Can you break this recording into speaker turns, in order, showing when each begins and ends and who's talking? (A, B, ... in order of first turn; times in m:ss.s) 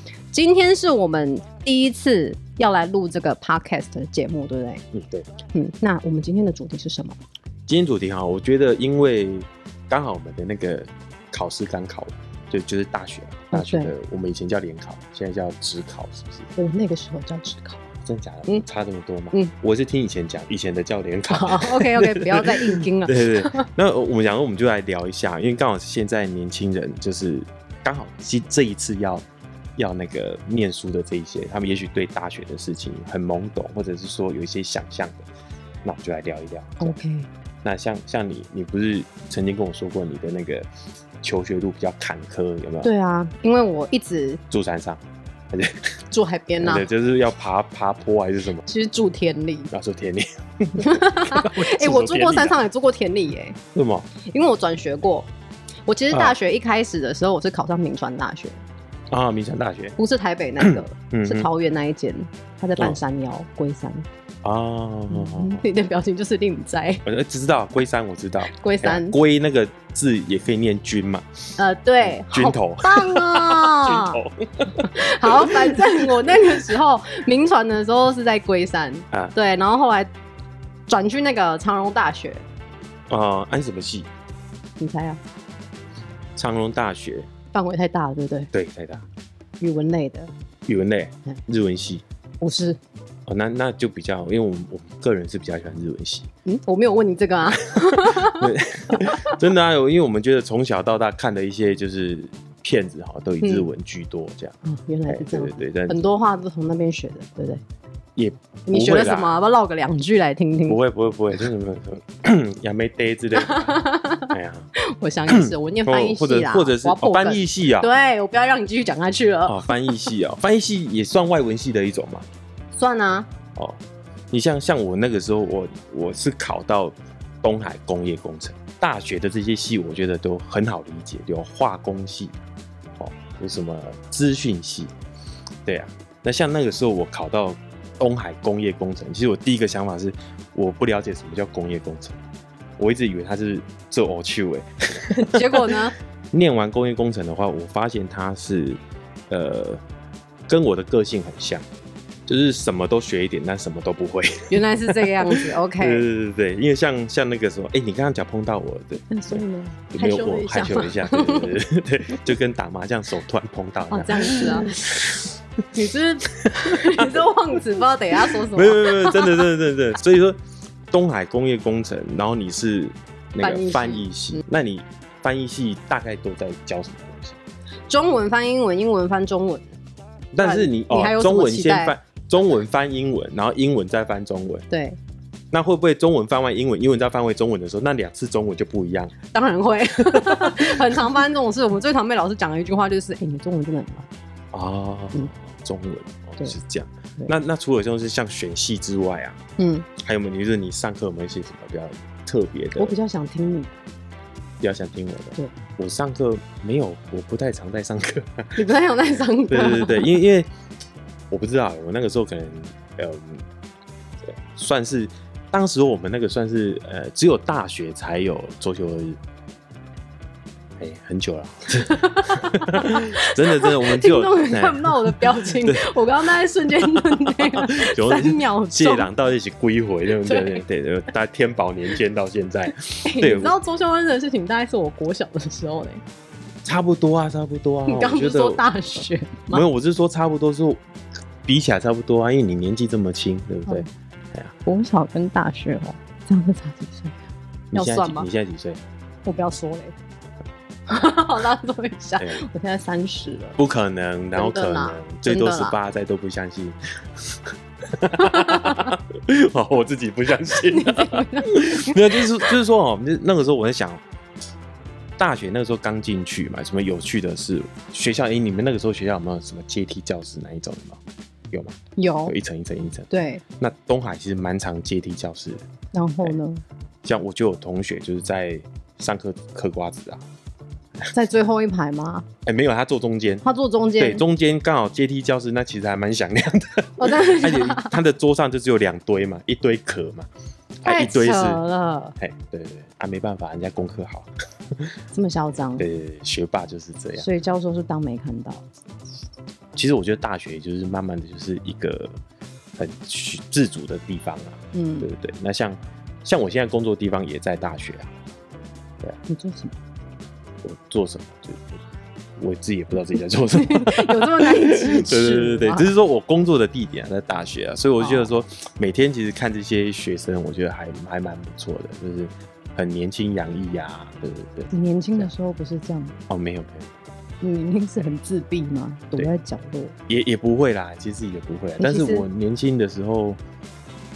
0:00.3-0:04.8 A
0:04.9-0:05.3 B
0:05.5-0:07.2 A
0:07.7-0:16.5 B
0:13.5-0:13.9 A
0:16.6-0:17.8 A
0:18.0-0:29.2 B
0:21.3-0:23.7 A
0:29.8-0:35.3 B
0:35.8-0:37.0 B
0:36.8-0:37.3 A
0:37.6-0:40.7 B
0:41.2-0:42.9 B
0:42.8-0:44.4 A
0:44.5-0:45.9 B
0:46.1-0:46.9 A
0:46.6-0:48.6 B
0:48.7-0:49.7 A
0:49.7-0:52.6 B
0:50.8-0:53.6 A
0:53.8-0:54.1 B
0:54.2-0:55.3 A
0:55.9-0:58.6 A
0:59.1-1:00.0 B
1:00.0-1:04.1 A
1:00.6-1:01.5 B
1:04.4-1:05.6 B
1:05.1-1:07.0 A
1:07.0-1:11.3 B
1:08.5-1:09.2 A
1:11.6-1:14.2 A
1:12.0-1:16.7 B
1:14.8-1:20.1 A
1:20.9-1:22.4 A
1:23.1-1:24.1 B
1:24.8-1:25.2 A
1:26.4-1:27.3 B
1:27.5-1:28.5 A
1:28.5-1:29.0 B
1:29.6-1:30.3 A
1:30.7-1:32.0 B
1:32.4-1:32.8 A
1:33.3-1:36.3 B
1:36.5-1:39.4 A
1:37.7-1:44.6 B
1:44.6-1:47.6 A
1:45.1-1:46.1 B
1:48.2-1:49.3 B
1:48.7-1:50.8 A
1:50.7-1:54.7 B
1:53.4-2:00.1 A
1:55.3-1:57.9 B
1:59.5-2:02.3 B
2:02.8-2:03.3 A
2:04.3-2:12.4 B
2:13.0-2:14.9 B
2:15.7-2:22.2 B
2:22.8-2:25.8 B
2:25.0-2:25.9 A
2:26.3-2:29.8 B
2:30.5-2:31.6 B
2:32.3-2:45.4 B
2:34.5-2:36.0 A
2:39.1-2:41.6 A
2:43.9-2:44.8 A
2:45.7-2:49.4 A
2:46.4-2:47.3 B
2:48.2-2:50.4 B
2:50.9-2:57.4 B
2:53.4-2:54.0 A
2:57.9-2:59.7 A
3:00.3-3:04.7 B
3:00.4-3:02.0 A
3:04.7-3:05.0 A
3:05.5-3:09.2 B
3:09.3-3:14.1 A
3:10.1-3:11.0 B
3:14.5-3:19.4 B
3:19.6-3:19.9 A
3:20.0-3:23.0 B
3:22.8-3:23.8 A
3:24.6-3:28.6 B
3:28.6-3:30.2 A
3:29.5-3:30.5 B
3:31.3-3:33.5 B
3:34.3-3:39.2 B
3:40.8-3:45.8 B
3:41.9-3:49.1 A
3:46.8-3:53.6 B
3:50.2-3:50.6 A
3:53.0-3:56.0 A
3:56.6-3:58.6 B
3:57.9-3:59.6 A
3:59.5-4:00.8 B
4:01.5-4:04.5 B
4:04.6-4:08.3 A
4:07.7-4:08.8 B
4:09.2-4:10.0 A
4:10.9-4:13.6 A
4:13.6-4:24.0 B
4:14.4-4:15.8 A
4:18.2-4:18.9 A
4:20.7-4:22.2 A
4:25.2-4:31.0 B
4:31.5-4:35.6 B
4:32.0-4:32.4 A
4:33.1-4:33.4 A
4:35.9-4:36.6 A
4:37.0-4:40.2 B
4:41.1-4:42.3 A
4:42.4-4:43.4 B
4:43.4-4:44.2 A
4:44.0-4:50.3 B
4:47.0-4:47.9 A
4:50.8-4:51.6 B
4:50.8-4:52.2 A
4:52.2-4:54.9 B
4:55.1-4:55.9 A
4:55.8-4:57.3 B
4:57.2-4:58.7 A
4:59.8-5:02.2 B
5:02.8-5:08.1 B
5:04.7-5:05.1 A
5:09.3-5:09.7 A
5:10.6-5:11.8 B
5:12.4-5:24.7 B
5:13.5-5:15.9 A
5:18.0-5:18.3 A
5:24.7-5:26.2 A
5:26.3-5:27.0 B
5:27.4-5:30.0 A
5:30.1-5:33.4 B
5:31.8-5:32.3 A